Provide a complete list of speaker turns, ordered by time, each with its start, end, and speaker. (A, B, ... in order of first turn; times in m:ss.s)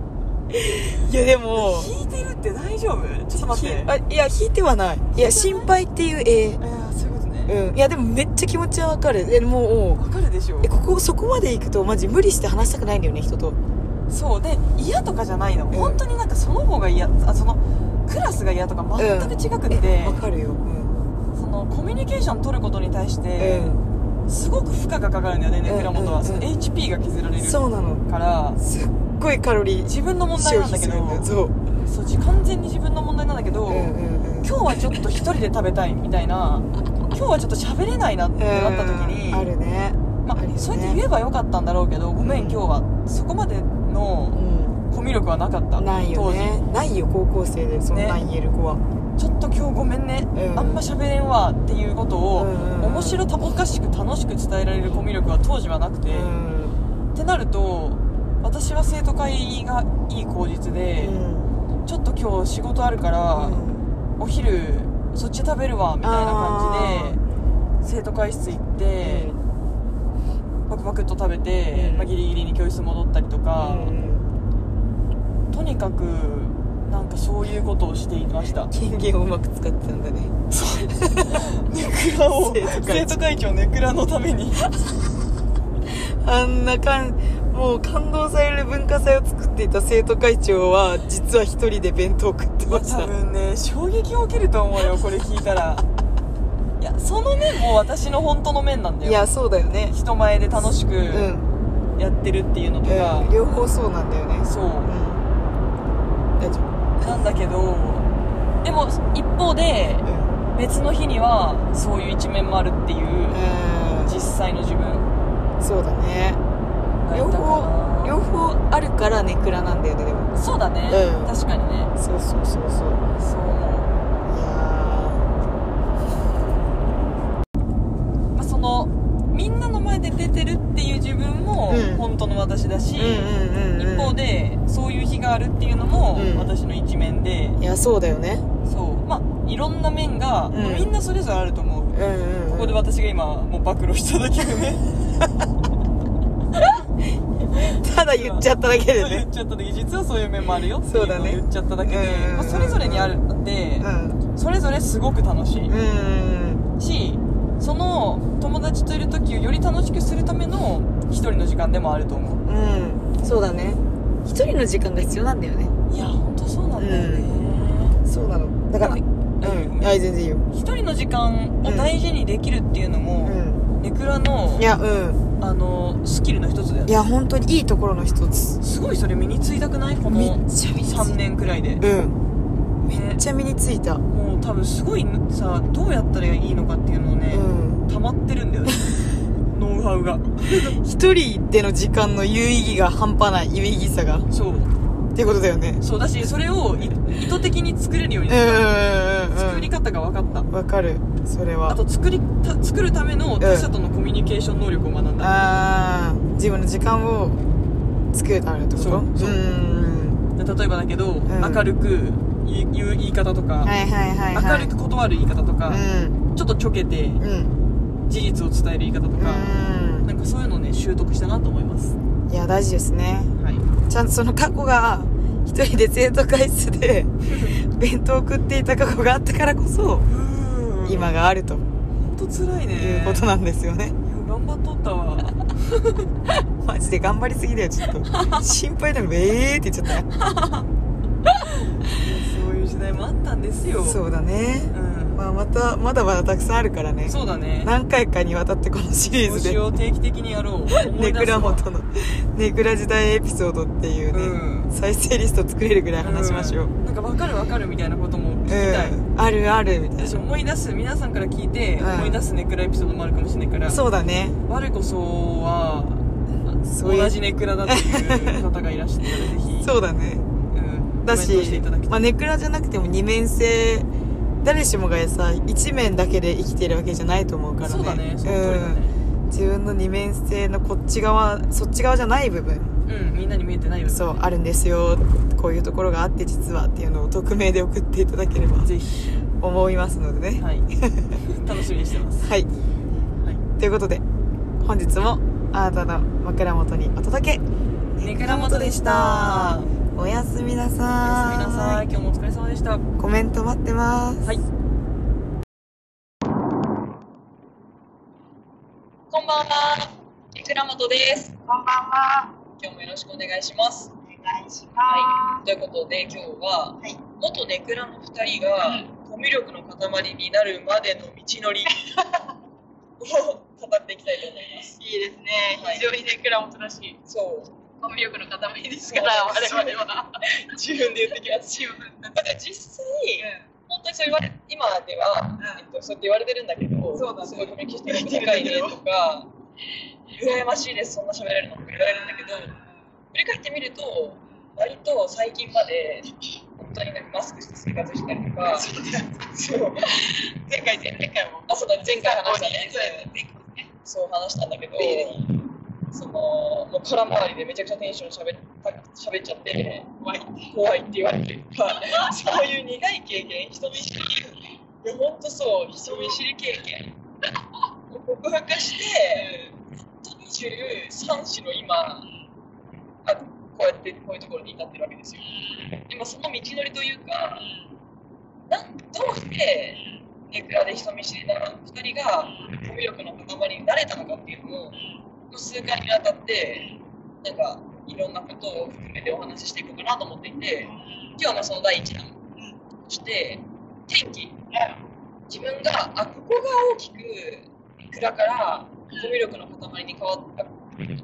0:00.5-0:01.9 A
0:01.6-0:03.9 B
0:03.4-0:06.6 A
0:05.1-0:05.7 B
0:06.6-0:07.6 B
0:07.5-0:10.0 A
0:10.0-0:10.7 B
0:10.6-0:13.6 A
0:14.1-0:20.2 B
0:15.7-0:16.0 A
0:19.0-0:21.0 A
0:21.4-0:23.7 B
0:23.4-0:23.8 A
0:24.3-0:28.6 B
0:25.7-0:26.5 A
0:27.4-0:28.0 A
0:28.6-0:31.6 A
0:29.9-0:39.5 B
0:33.7-0:34.6 A
0:38.4-0:41.0 A
0:40.2-0:44.4 B
0:42.2-0:42.6 A
0:44.3-0:44.8 A
0:44.9-0:46.6 B
0:45.8-0:48.8 A
0:47.9-0:48.2 B
0:49.2-0:56.3 B
0:50.3-0:50.8 A
0:52.4-0:53.2 A
0:56.1-0:56.8 A
0:57.1-1:01.2 B
1:01.0-1:01.5 A
1:01.8-1:03.6 B
1:03.4-1:03.8 A
1:04.2-1:07.2 B
1:06.0-1:07.2 A
1:07.8-1:09.3 B
1:09.0-1:09.4 A
1:10.7-1:13.9 B
1:11.7-1:12.1 A
1:13.6-1:14.3 A
1:15.5-1:18.7 B
1:18.7-1:20.4 A
1:20.5-1:24.6 B
1:21.0-1:21.5 A
1:22.4-1:23.2 A
1:26.0-1:33.1 A
1:32.7-1:35.9 B
1:36.8-1:39.2 B
1:39.0-1:40.0 A
1:39.9-1:41.3 B
1:41.1-1:41.5 A
1:42.0-1:43.3 B
1:42.8-1:45.2 A
1:44.4-1:44.9 B
1:46.4-1:46.7 A
1:47.0-1:48.1 B
1:48.6-1:53.4 B
1:50.0-1:50.4 A
1:53.3-1:54.1 A
1:54.0-1:55.1 B
1:55.6-1:56.4 A
1:57.0-1:58.2 B
1:57.1-2:00.4 A
2:00.4-2:01.9 B
2:00.9-2:01.3 A
2:02.0-2:03.0 A
2:03.2-2:03.9 B
2:04.3-2:05.3 A
2:08.3-2:17.6 B
2:11.7-2:12.1 A
2:13.0-2:14.2 A
2:16.2-2:16.5 A
2:17.6-2:18.4 A
2:18.7-2:24.9 B
2:20.5-2:20.9 A
2:21.9-2:22.8 A
2:27.5-2:29.3 A
2:27.9-2:35.7 B
2:30.8-2:33.2 A
2:33.8-2:34.2 A
2:35.7-2:36.7 A
2:36.8-2:42.4 B
2:42.5-2:45.7 A
2:45.9-2:48.0 B
2:46.8-2:47.4 A
2:48.0-2:50.4 A
2:48.8-2:49.9 B
2:50.5-2:54.7 B
2:51.6-2:51.9 A
2:53.2-2:53.6 A
2:54.6-2:55.2 A
2:55.4-2:57.0 B
2:56.9-2:58.6 A
2:58.6-3:01.8 B
3:00.1-3:01.2 A
3:01.8-3:02.2 A
3:02.8-3:03.2 B
3:02.8-3:04.0 A
3:04.1-3:08.9 B
3:07.3-3:07.8 A
3:09.5-3:10.8 B
3:10.8-3:14.3 A
3:14.3-3:14.7 B
3:15.2-3:15.8 A
3:15.8-3:18.8 B
3:18.3-3:19.7 A
3:19.3-3:20.5 B
3:20.5-3:21.8 A
3:21.7-3:25.3 B
3:23.4-3:23.7 A
3:25.2-3:27.4 A
3:28.1-3:30.2 A
3:28.8-3:29.4 B
3:30.4-3:33.7 B
3:31.3-3:31.6 A
3:33.6-3:34.7 A
3:34.3-3:35.8 B
3:35.7-3:36.2 A
3:36.3-3:37.2 B
3:37.2-3:37.5 A
3:38.1-3:42.0 B
3:39.2-3:40.1 A
3:42.3-3:43.3 A
3:43.4-3:43.6 B
3:43.9-3:50.1 A
3:47.3-3:47.6 B
3:50.1-3:51.1 B
3:50.8-3:51.7 A
3:52.0-3:53.3 B
3:52.8-3:54.0 A
3:54.0-3:56.1 B
3:56.6-4:00.1 A
3:58.1-3:58.5 B
4:00.3-4:00.6 B
4:01.6-4:04.0 B
4:03.8-4:09.6 A
4:04.7-4:05.2 B
4:07.1-4:07.7 B
4:09.2-4:11.6 B
4:10.8-4:16.7 A
4:14.1-4:14.7 B
4:16.0-4:19.0 B
4:18.5-4:20.2 A
4:20.0-4:23.8 B
4:21.8-4:22.2 A
4:23.7-4:24.4 A
4:24.5-4:29.7 B
4:26.6-4:28.4 A
4:29.6-4:30.3 A
4:30.5-4:32.1 B
4:31.0-4:33.9 A
4:34.4-4:42.8 A
4:37.6-4:39.0 B
4:42.9-4:44.0 B
4:43.9-4:48.7 A
4:48.6-4:49.2 B
4:49.4-4:51.1 A
4:50.4-4:50.7 B
4:51.2-4:52.3 B
4:52.2-4:52.5 A
4:53.6-4:54.0 A
4:54.6-4:57.4 A
4:58.0-5:01.9 A
4:58.0-4:59.7 B
5:01.0-5:02.8 B
5:03.0-5:04.3 A
5:09.1-5:11.4 C
5:11.4-5:12.4 D
5:12.6-5:13.9 C
5:14.0-5:15.5 D
5:14.9-5:21.8 C
5:18.6-5:18.9 D
5:21.9-5:22.3 D
5:23.0-5:24.8 C
5:24.8-5:27.0 D
5:25.6-5:25.9 C
5:27.1-5:27.6 C
5:27.7-5:32.2 D
5:28.8-5:39.3 C
5:33.2-5:33.5 D
5:35.4-5:35.7 D
5:36.9-5:38.8 D
5:40.1-5:42.6 C
5:41.8-5:42.8 D
5:43.1-5:48.7 C
5:44.1-5:44.4 D
5:48.5-5:49.3 D
5:49.3-5:50.0 C
5:49.8-5:53.7 D
5:51.5-5:53.1 C
5:53.8-5:55.3 C
5:54.8-5:55.3 D
5:55.9-5:59.9 C
6:00.0-6:00.5 D
6:00.5-6:06.9 C
6:01.7-6:02.5 D
6:05.8-6:06.2 D
6:07.9-6:09.5 C
6:08.6-6:09.5 D
6:10.0-6:12.0 C
6:13.0-6:15.2 C
6:15.2-6:15.8 D
6:15.8-6:17.4 C
6:17.4-6:17.8 D
6:18.5-6:24.8 C
6:19.7-6:20.0 D
6:22.2-6:22.6 D
6:24.7-6:25.0 D
6:25.3-6:26.7 C
6:26.6-6:26.8 D
6:27.2-6:32.2 C
6:30.6-6:31.2 D
6:32.8-6:34.4 C
6:34.5-6:34.8 D
6:35.3-6:40.8 C
6:38.9-6:39.2 D